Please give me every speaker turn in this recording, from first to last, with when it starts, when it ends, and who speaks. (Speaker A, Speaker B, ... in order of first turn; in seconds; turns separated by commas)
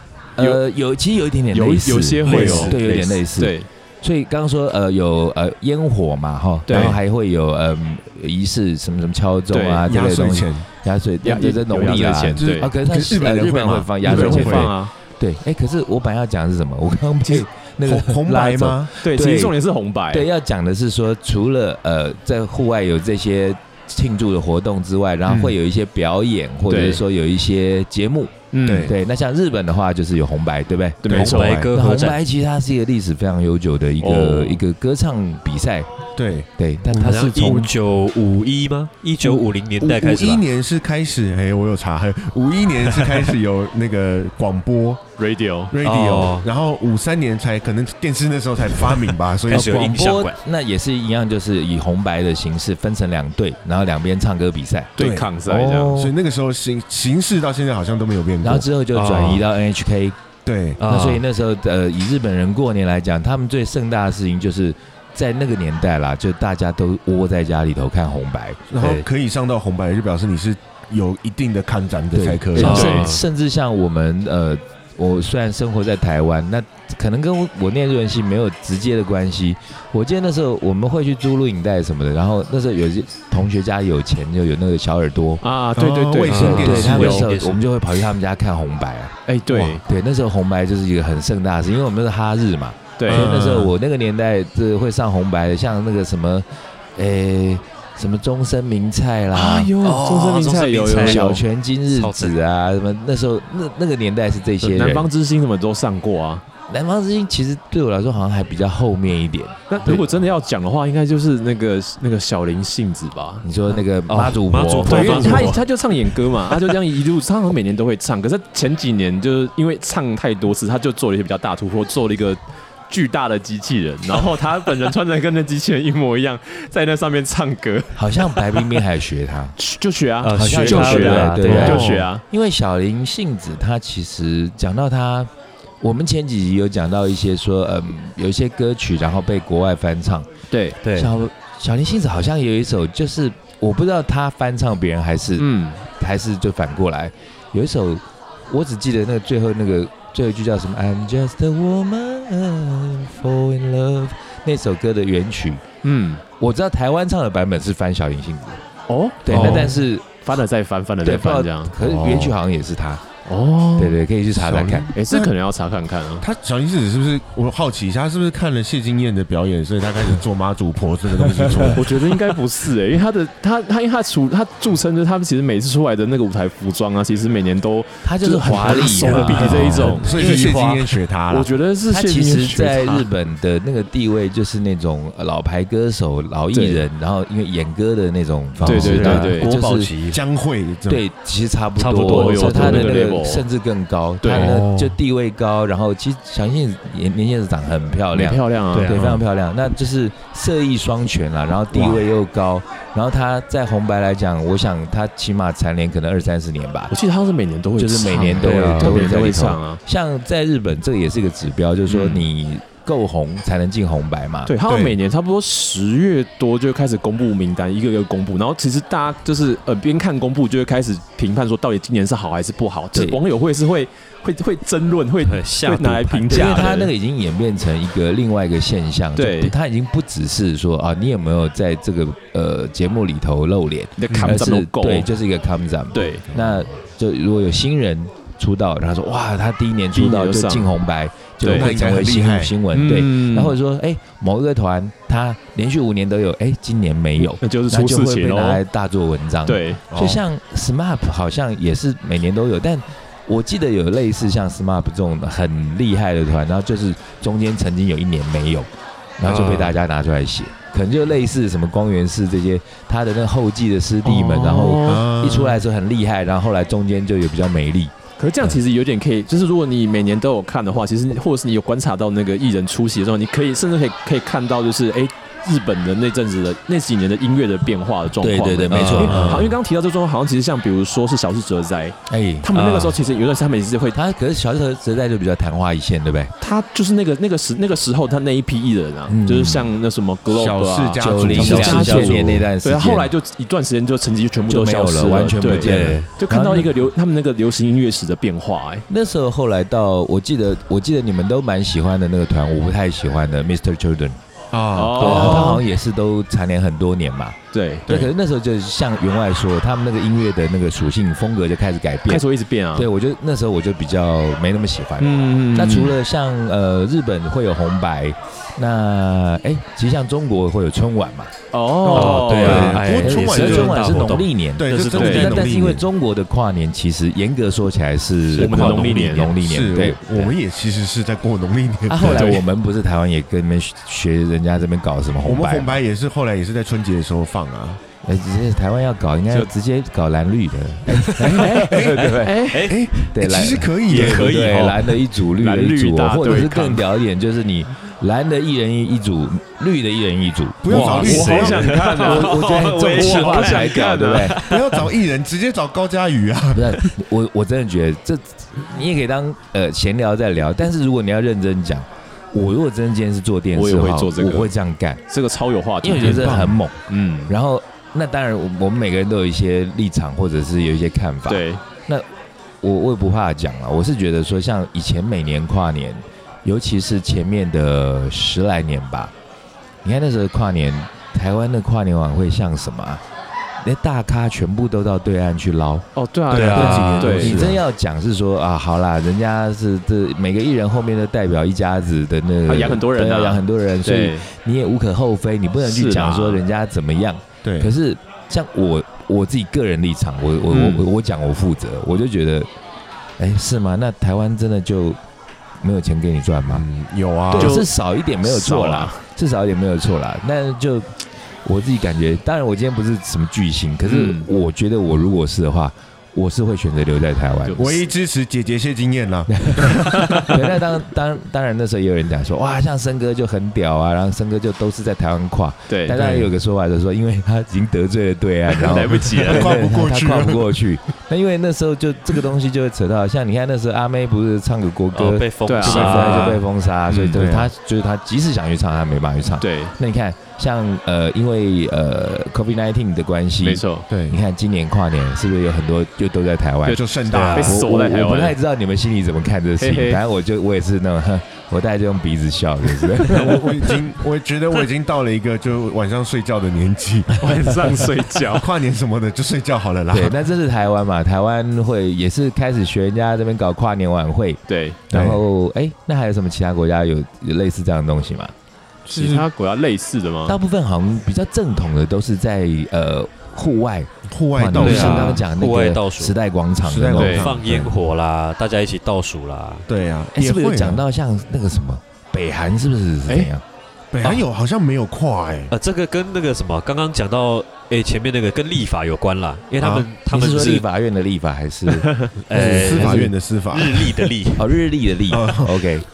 Speaker A: 0.3-19.6, Speaker B: 1.5-3.7, Speaker C: 2.2-2.7, Speaker D: 2.3-2.7, Speaker B: 6.7-7.0, Speaker B: 9.5-9.9, Speaker D: 9.8-10.7, Speaker B: 11.2-12.7, Speaker D: 12.3-14.7, Speaker B: 14.0-14.9, Speaker D: 17.8-18.9, Speaker B: 19.0-20.3, Speaker A: 20.1-35.9, Speaker D: 25.2-25.6, Speaker B: 26.7-27.0, Speaker B: 28.5-28.9, Speaker D: 28.6-28.9, Speaker B: 31.0-31.6, Speaker C: 31.1-32.2, Speaker D: 31.4-31.6, Speaker B: 34.0-34.6, Speaker D: 36.1-37.7, Speaker A: 36.6-37.7, Speaker C: 37.0-40.4, Speaker D: 39.2-45.0, Speaker C: 42.9-43.3, Speaker B: 45.2-45.7, Speaker D: 45.7-49.9, Speaker C: 45.8-46.5, Speaker C: 48.9-50.4, Speaker A: 49.5-56.1, Speaker B: 55.0-56.0, Speaker D: 55.0-55.3, Speaker D: 55.9-58.6, Speaker A: 58.4-60.2, Speaker C: 58.9-59.4, Speaker D: 60.5-60.8, Speaker C: 60.8-61.2, Speaker A: 60.8-68.6, Speaker D: 68.7-73.0, Speaker C: 68.8-69.0, Speaker A: 72.1-85.4, Speaker C: 72.5-73.2, Speaker B: 72.6-73.1, Speaker B: 85.4-87.3, Speaker D: 85.7-87.3, Speaker C: 86.3-87.6, Speaker A: 86.3-89.1, Speaker B: 89.3-89.8, Speaker A: 89.7-99.8, Speaker B: 93.0-93.3, Speaker D: 93.1-93.7, Speaker B: 99.3-101.4, Speaker C: 99.8-101.4, Speaker A: 100.9-105.1, Speaker C: 101.9-102.3, Speaker B: 104.6-106.4, Speaker A: 106.7-110.1, Speaker B: 109.7-113.5, Speaker A: 113.4-115.6, Speaker C: 114.1-115.6, Speaker B: 114.8-128.8, Speaker A: 128.0-129.6, Speaker B: 129.6-132.2, Speaker C: 130.2-131.9, Speaker A: 130.3-140.3, Speaker D: 131.6-132.1, Speaker B: 140.5-140.8, Speaker C: 140.8-141.1, Speaker A: 140.9-155.6, Speaker B: 145.4-145.8, Speaker B: 155.8-156.2, Speaker A: 156.4-158.6, Speaker B: 158.9-161.7, Speaker A: 159.2-160.1, Speaker C: 159.3-159.7, Speaker A: 161.0-163.0, Speaker D: 161.8-162.3, Speaker B: 163.2-164.0, Speaker A: 163.8-164.9, Speaker D: 164.3-165.3, Speaker B: 164.9-166.2, Speaker D: 166.2-172.1, Speaker A: 171.3-171.8, Speaker B: 171.7-180.6, Speaker A: 178.0-180.4, Speaker C: 178.8-180.8, Speaker D: 179.6-181.5, Speaker B: 181.3-183.1, Speaker A: 181.9-189.9, Speaker B: 186.5-186.8, Speaker C: 188.6-190.2, Speaker B: 188.6-189.5, Speaker D: 190.1-191.0, Speaker A: 190.9-206.9, Speaker C: 191.8-192.9, Speaker B: 192.0-193.4, Speaker B: 194.2-194.6, Speaker D: 194.3-194.9, Speaker B: 198.1-198.9, Speaker C: 198.7-199.2, Speaker B: 206.9-209.8, Speaker A: 207.8-214.5, Speaker C: 208.4-209.1, Speaker B: 211.9-212.2, Speaker B: 214.4-226.9, Speaker D: 214.6-215.0, Speaker A: 222.9-223.2, Speaker C: 225.2-226.7, Speaker A: 226.3-267.9, Speaker B: 229.2-229.5, Speaker B: 234.0-235.1, Speaker D: 234.1-234.4, Speaker B: 235.9-236.3, Speaker D: 236.3-236.7, Speaker B: 239.9-240.7, Speaker B: 241.4-241.7, Speaker D: 241.4-242.5, Speaker B: 242.7-243.6, Speaker B: 247.2-248.6, Speaker B: 249.4-249.8, Speaker D: 249.9-250.2, Speaker C: 259.2-259.7, Speaker B: 264.0-265.1, Speaker D: 264.8-265.6, Speaker B: 268.2-284.0, Speaker A: 278.2-279.5, Speaker C: 278.7-279.4, Speaker D: 279.1-279.5, Speaker A: 282.1-282.5, Speaker C: 282.5-283.0, Speaker A: 283.9-286.3, Speaker B: 286.4-298.9, Speaker A: 289.1-289.7, Speaker D: 290.3-292.2, Speaker A: 291.0-293.1, Speaker C: 291.2-292.5, Speaker A: 294.5-296.7, Speaker C: 295.4-296.1, Speaker A: 298.9-304.2, Speaker D: 304.5-305.5, Speaker B: 304.7-305.6, Speaker A: 304.9-321.3, Speaker B: 307.5-307.9, Speaker B: 312.1-312.9, Speaker B: 315.0-315.9, Speaker B: 321.5-322.8, Speaker D: 321.8-323.8, Speaker C: 321.9-325.4, Speaker A: 322.4-330.0, Speaker D: 324.6-325.9, Speaker B: 324.9-325.4, Speaker C: 328.3-329.3, Speaker B: 328.4-329.3, Speaker D: 329.3-332.4, Speaker A: 331.9-335.8, Speaker B: 332.0-332.4, Speaker D: 335.2-337.8, Speaker A: 338.0-342.4, Speaker D: 341.2-344.5, Speaker B: 341.2-342.7, Speaker C: 342.5-344.9, Speaker A: 343.1-354.4, Speaker B: 345.3-346.8, Speaker D: 350.6-351.7, Speaker C: 350.6-354.9, Speaker B: 350.7-354.5, Speaker D: 354.5-356.8, Speaker A: 356.5-365.0, Speaker B: 363.5-364.5, Speaker B: 365.1-367.3, Speaker A: 365.8-372.1, Speaker D: 365.9-366.6, Speaker B: 371.3-371.6, Speaker A: 372.6-379.1, Speaker A: 379.8-383.0, Speaker A: 383.6-385.9, Speaker B: 385.9-387.5, Speaker D: 386.3-387.6, Speaker C: 386.3-387.4, Speaker A: 386.5-402.5, Speaker B: 392.4-394.2, Speaker B: 395.6-396.4, Speaker D: 397.4-397.7, Speaker B: 400.5-400.9, Speaker A: 403.2-405.0, Speaker A: 405.6-406.6, Speaker D: 406.5-407.6, Speaker A: 407.3-417.7, Speaker B: 407.3-407.7, Speaker B: 408.2-409.0, Speaker B: 413.8-414.3, Speaker B: 417.4-417.8, Speaker D: 417.6-420.2, Speaker A: 419.3-453.7, Speaker B: 419.8-420.4, Speaker B: 425.7-426.3, Speaker B: 428.5-429.6, Speaker D: 429.1-430.5, Speaker C: 434.9-436.4, Speaker B: 435.4-437.2, Speaker D: 437.0-437.5, Speaker B: 439.4-439.8, Speaker B: 443.4-443.9, Speaker D: 443.9-444.2, Speaker B: 446.6-448.4, Speaker D: 446.7-447.7, Speaker C: 447.1-447.6, Speaker B: 449.6-450.0, Speaker D: 453.0-460.1, Speaker B: 457.2-458.5, Speaker A: 459.9-468.3, Speaker B: 464.5-464.8, Speaker D: 464.9-465.2, Speaker B: 468.9-470.4, Speaker D: 468.9-469.3, Speaker A: 470.2-477.7, Speaker D: 474.1-475.2, Speaker C: 474.5-476.1, Speaker B: 474.7-475.1, Speaker D: 476.6-477.5, Speaker B: 476.9-477.2, Speaker C: 477.0-479.7, Speaker D: 479.7-480.8, Speaker A: 480.1-483.4, Speaker D: 483.9-485.5, Speaker C: 485.5-490.6, Speaker D: 489.6-489.9, Speaker A: 490.1-493.1, Speaker B: 491.8-492.1, Speaker C: 492.3-494.5, Speaker D: 492.3-494.1, Speaker A: 494.4-495.8, Speaker D: 495.1-495.6